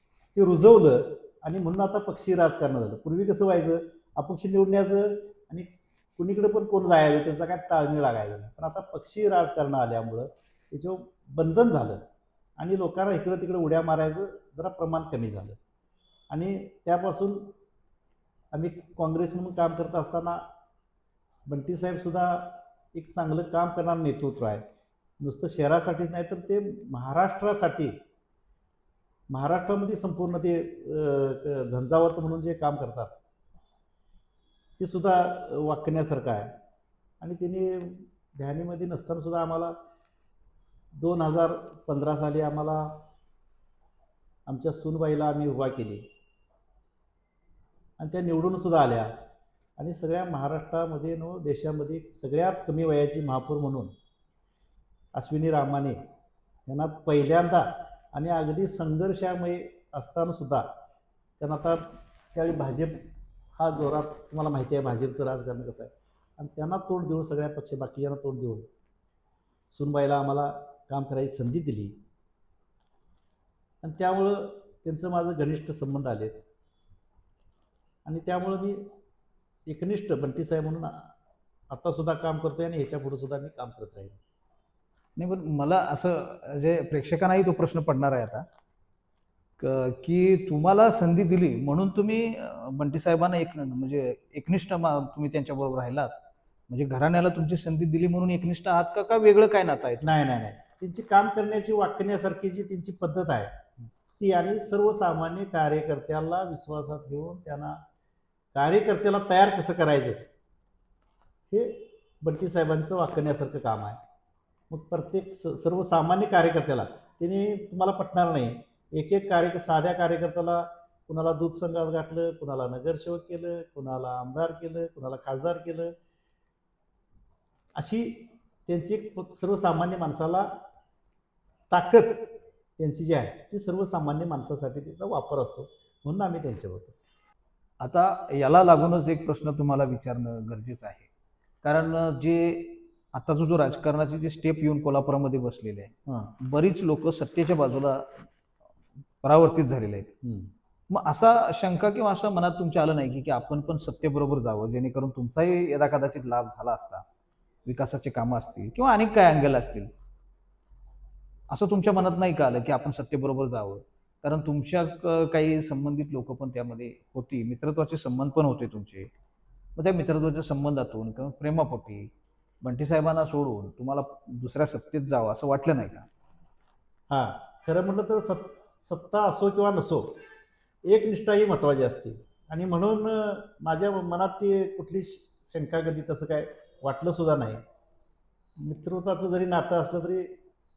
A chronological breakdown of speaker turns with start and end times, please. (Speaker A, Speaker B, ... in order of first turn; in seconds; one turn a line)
Speaker A: 0.3-12.0
Speaker A: 12.6-15.6
Speaker A: 16.3-17.5
Speaker A: 18.5-20.4
Speaker A: 21.5-24.6
Speaker A: 25.2-28.0
Speaker A: 29.3-33.2
Speaker A: 34.8-36.5
Speaker A: 37.2-39.7
Speaker A: 41.0-43.0
Speaker A: 44.5-46.1
Speaker A: 48.0-49.1
Speaker A: 49.8-53.9
Speaker A: 55.1-56.0
Speaker A: 56.7-60.7
Speaker A: 61.4-63.0
Speaker A: 63.6-68.7
Speaker A: 69.7-72.0
Speaker A: 73.8-76.4
Speaker A: 78.0-78.9
Speaker A: 79.7-81.1
Speaker A: 81.7-84.2
Speaker B: 85.2-88.5
Speaker B: 89.6-96.2
Speaker B: 96.7-100.2
Speaker A: 100.0-103.5
Speaker A: 104.2-107.8
Speaker A: 108.5-110.2
Speaker A: 111.5-114.0
Speaker A: 114.7-125.9
Speaker A: 127.8-130.5
Speaker A: 131.7-132.2
Speaker A: 132.8-137.0
Speaker B: 137.8-141.1
Speaker B: 141.6-145.9
Speaker A: 146.1-146.3
Speaker B: 146.4-148.2
Speaker B: 149.2-150.1
Speaker A: 150.2-150.5
Speaker B: 150.9-157.0
Speaker B: 157.7-159.9
Speaker B: 161.5-169.1
Speaker B: 169.8-172.1
Speaker B: 172.6-176.1
Speaker A: 177.1-180.1
Speaker A: 180.9-187.6
Speaker A: 188.6-190.3